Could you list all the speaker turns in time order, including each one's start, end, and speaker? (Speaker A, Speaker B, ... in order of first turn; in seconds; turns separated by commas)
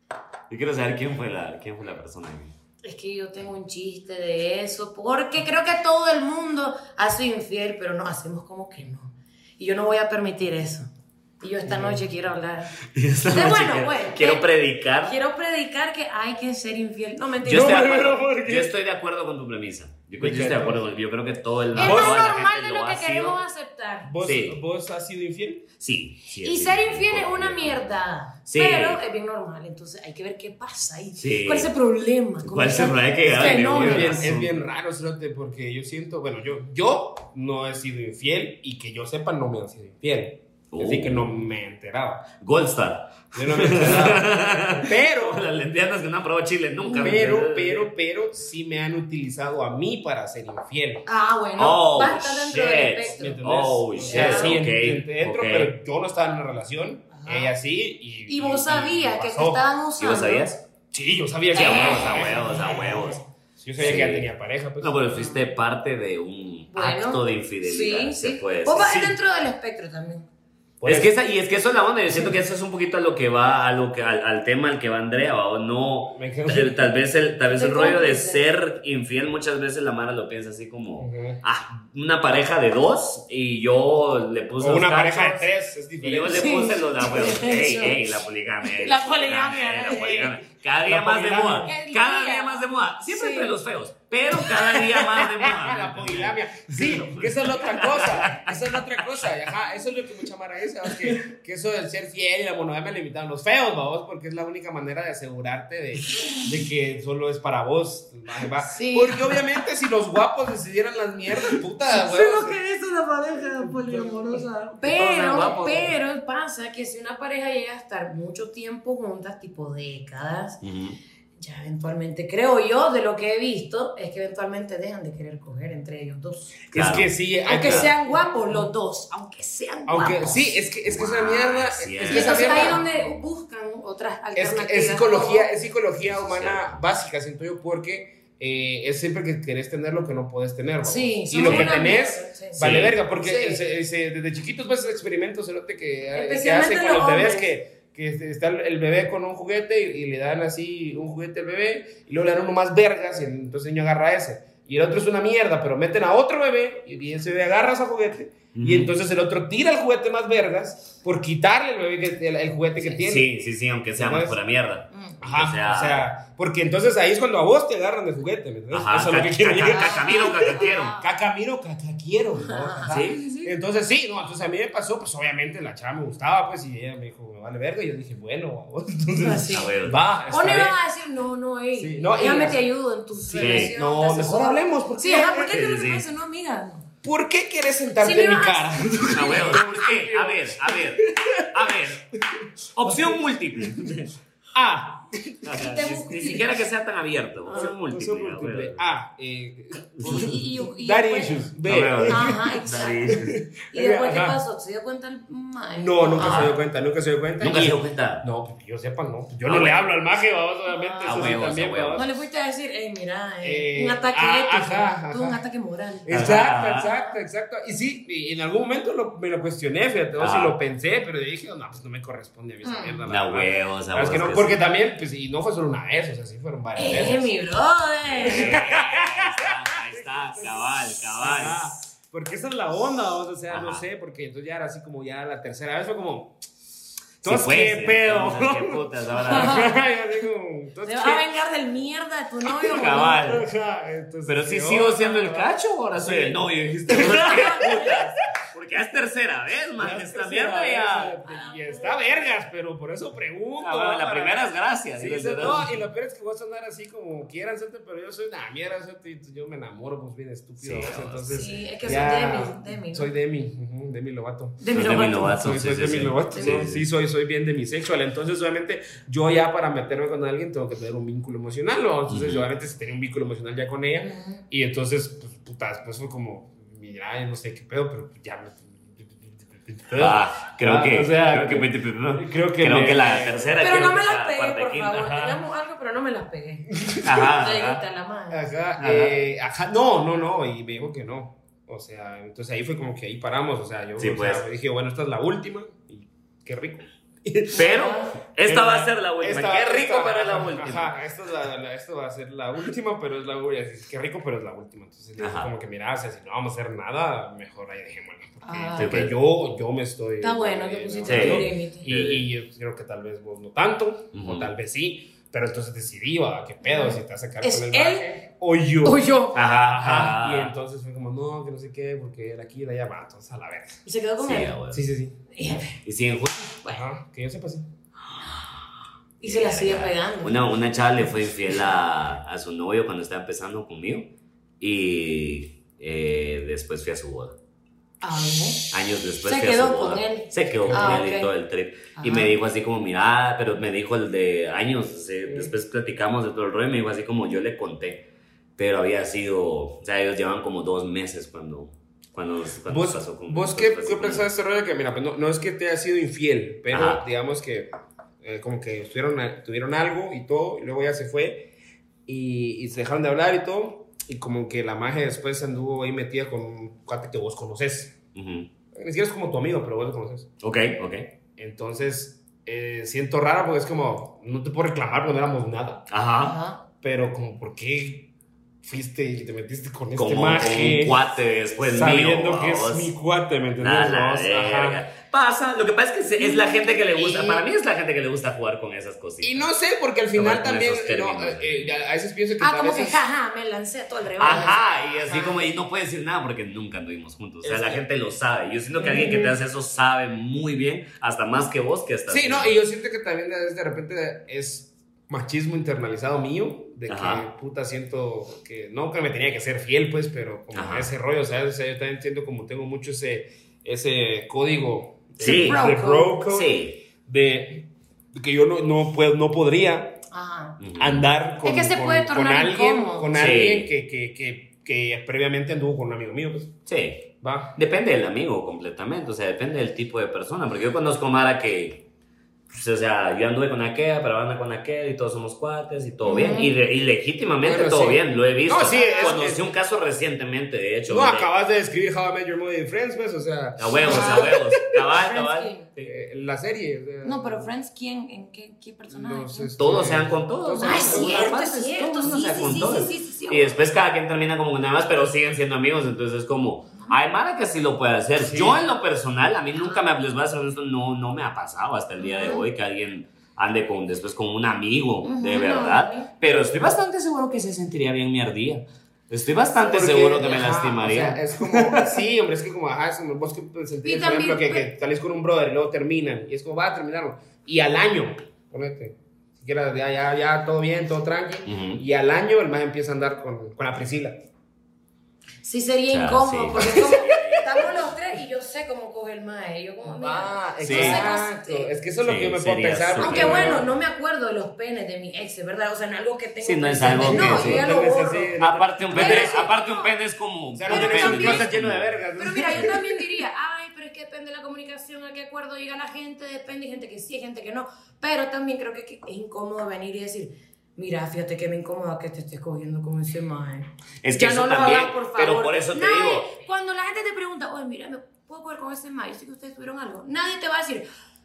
Speaker A: 0.5-2.5, Speaker B: 2.8-12.7, Speaker C: 11.6-12.0, Speaker A: 12.9-15.2, Speaker B: 13.3-14.5, Speaker B: 15.0-18.0, Speaker A: 17.4-23.4, Speaker C: 17.4-18.7, Speaker C: 20.2-20.8, Speaker C: 21.7-22.3, Speaker B: 21.7-24.1, Speaker C: 24.0-25.7, Speaker A: 24.2-24.6, Speaker A: 25.8-29.0, Speaker B: 26.4-34.2, Speaker A: 31.1-31.7, Speaker A: 32.4-34.6, Speaker C: 33.4-42.3, Speaker A: 40.7-41.3, Speaker A: 42.4-47.9, Speaker C: 43.3-45.5, Speaker B: 46.8-47.2, Speaker C: 47.0-51.0, Speaker B: 51.0-53.4, Speaker A: 51.6-55.7, Speaker C: 53.1-59.6, Speaker B: 54.0-54.6, Speaker B: 57.1-57.5, Speaker B: 58.3-60.5, Speaker A: 60.0-60.6, Speaker C: 60.9-63.0, Speaker B: 61.5-63.2, Speaker A: 61.5-63.2, Speaker C: 63.6-65.2, Speaker A: 63.8-69.1, Speaker B: 65.1-65.4, Speaker B: 66.7-70.3, Speaker C: 70.8-71.1, Speaker A: 70.8-99.3, Speaker C: 76.1-76.9, Speaker B: 77.5-78.4, Speaker C: 81.0-81.4, Speaker C: 84.6-86.8, Speaker B: 86.3-88.0, Speaker B: 88.7-90.3, Speaker C: 90.8-91.7, Speaker B: 91.6-93.5, Speaker B: 94.6-94.8, Speaker C: 95.2-112.6, Speaker B: 108.6-109.4, Speaker B: 111.9-120.6, Speaker C: 113.8-114.3, Speaker A: 113.9-115.9, Speaker A: 120.6-121.0, Speaker B: 121.4-126.6, Speaker C: 126.7-128.7, Speaker A: 126.7-127.9, Speaker B: 127.4-130.5, Speaker C: 129.9-132.8, Speaker A: 130.8-132.8, Speaker B: 132.1-135.5, Speaker C: 134.3-164.4, Speaker A: 136.1-136.8, Speaker B: 140.8-143.6, Speaker A: 141.4-141.7, Speaker A: 142.6-143.0, Speaker B: 146.1-147.5, Speaker A: 158.5-158.9, Speaker A: 163.0-166.1, Speaker B: 164.9-165.2, Speaker C: 165.2-180.8, Speaker A: 168.7-170.9, Speaker B: 169.6-171.1, Speaker B: 172.4-173.0, Speaker A: 172.8-173.5, Speaker B: 179.2-186.9, Speaker A: 179.5-180.0, Speaker C: 181.7-185.6, Speaker A: 183.4-183.7, Speaker A: 185.2-186.1, Speaker C: 187.0-194.0, Speaker B: 188.0-189.7, Speaker A: 189.1-192.1, Speaker A: 192.8-194.1, Speaker C: 194.5-195.7, Speaker A: 195.4-198.8, Speaker B: 195.6-196.5, Speaker C: 197.5-202.6, Speaker A: 200.0-200.4, Speaker B: 200.0-201.5, Speaker A: 201.6-203.4, Speaker B: 202.0-206.5, Speaker C: 203.1-204.4, Speaker C: 205.8-212.1, Speaker A: 206.2-206.5, Speaker A: 207.4-208.2, Speaker A: 209.4-209.8, Speaker B: 210.7-211.4, Speaker A: 211.0-212.0, Speaker B: 211.9-216.1, Speaker C: 213.4-215.4, Speaker C: 216.1-227.3, Speaker A: 216.1-216.9, Speaker A: 220.2-220.6, Speaker B: 222.6-223.0, Speaker A: 223.1-224.6, Speaker B: 226.7-228.6, Speaker A: 228.1-231.7, Speaker C: 228.2-236.4, Speaker A: 233.5-233.8, Speaker C: 237.2-241.3, Speaker A: 237.2-239.7, Speaker B: 239.2-239.7, Speaker B: 240.8-243.3, Speaker C: 242.6-248.0, Speaker A: 242.6-243.4, Speaker A: 244.3-251.2, Speaker B: 247.1-247.9, Speaker C: 249.8-283.6, Speaker B: 251.2-252.3, Speaker A: 253.6-255.7, Speaker A: 260.6-262.0, Speaker B: 261.3-263.1, Speaker B: 264.6-265.4, Speaker A: 264.7-266.8, Speaker B: 266.3-266.6, Speaker A: 272.1-272.4, Speaker B: 274.0-274.4, Speaker A: 279.9-285.4, Speaker B: 283.6-288.5, Speaker C: 286.8-287.3, Speaker A: 287.0-287.8, Speaker C: 288.3-297.8, Speaker A: 288.8-289.1, Speaker A: 294.0-294.4, Speaker B: 297.5-298.2, Speaker A: 297.5-300.9, Speaker C: 298.4-319.1, Speaker A: 305.2-305.5, Speaker B: 308.4-308.9, Speaker A: 308.8-309.1, Speaker B: 310.2-311.9, Speaker A: 311.0-312.3, Speaker A: 314.1-314.5, Speaker B: 316.6-318.1, Speaker B: 318.8-319.4, Speaker A: 319.3-320.5, Speaker C: 319.6-323.8, Speaker B: 323.8-324.5, Speaker A: 324.2-324.8, Speaker C: 324.7-325.2, Speaker B: 325.3-325.8, Speaker A: 325.8-326.6, Speaker C: 326.7-327.7, Speaker B: 328.2-328.4, Speaker B: 329.2-330.4, Speaker A: 329.2-334.1, Speaker A: 334.6-337.4, Speaker B: 338.0-338.7, Speaker A: 338.7-354.2, Speaker B: 339.2-341.3, Speaker C: 340.6-341.0, Speaker B: 342.0-342.4, Speaker C: 345.2-345.5, Speaker C: 352.6-357.7, Speaker A: 356.7-357.0, Speaker C: 358.2-361.5, Speaker C: 362.1-368.0, Speaker A: 368.1-368.5, Speaker C: 368.7-370.3, Speaker A: 370.4-371.1, Speaker C: 371.4-375.9, Speaker A: 375.9-376.4, Speaker B: 376.2-376.6, Speaker C: 376.8-378.1, Speaker C: 378.6-381.0, Speaker A: 379.9-382.9, Speaker C: 381.6-384.8, Speaker A: 383.6-389.5, Speaker B: 386.2-387.4, Speaker C: 389.2-393.0, Speaker A: 390.1-391.7, Speaker B: 392.4-395.4, Speaker A: 394.2-402.5, Speaker C: 397.4-397.8, Speaker B: 398.8-399.3, Speaker C: 402.1-420.0, Speaker A: 406.9-407.2, Speaker A: 410.5-410.9, Speaker A: 415.2-415.7, Speaker B: 415.2-416.2, Speaker A: 416.3-416.8, Speaker B: 420.1-420.6, Speaker A: 420.6-421.1, Speaker C: 420.8-426.5, Speaker B: 421.4-423.1, Speaker A: 423.1-423.7, Speaker A: 426.7-431.8, Speaker C: 427.2-427.5, Speaker A: 432.5-441.3, Speaker B: 436.0-436.5, Speaker C: 437.4-439.4, Speaker B: 438.7-439.2, Speaker C: 440.9-444.8, Speaker A: 443.6-445.8, Speaker B: 443.8-444.4, Speaker B: 444.9-445.7, Speaker C: 445.8-447.5, Speaker B: 447.0-449.6, Speaker C: 448.9-451.4, Speaker A: 449.6-471.9, Speaker B: 450.6-453.6, Speaker C: 452.3-452.7, Speaker C: 458.2-458.6, Speaker B: 462.0-462.4, Speaker B: 465.0-466.1, Speaker C: 469.6-484.3, Speaker B: 473.8-474.6, Speaker A: 481.4-481.8, Speaker B: 485.4-491.7, Speaker A: 485.9-487.9, Speaker C: 489.8-493.7, Speaker A: 490.6-491.0, Speaker A: 492.0-493.6, Speaker B: 493.0-498.3, Speaker A: 496.4-497.7, Speaker C: 496.9-499.5, Speaker A: 498.4-502.1, Speaker B: 498.9-499.9, Speaker C: 500.5-503.0, Speaker B: 500.7-501.5, Speaker B: 502.2-520.9, Speaker A: 514.0-516.3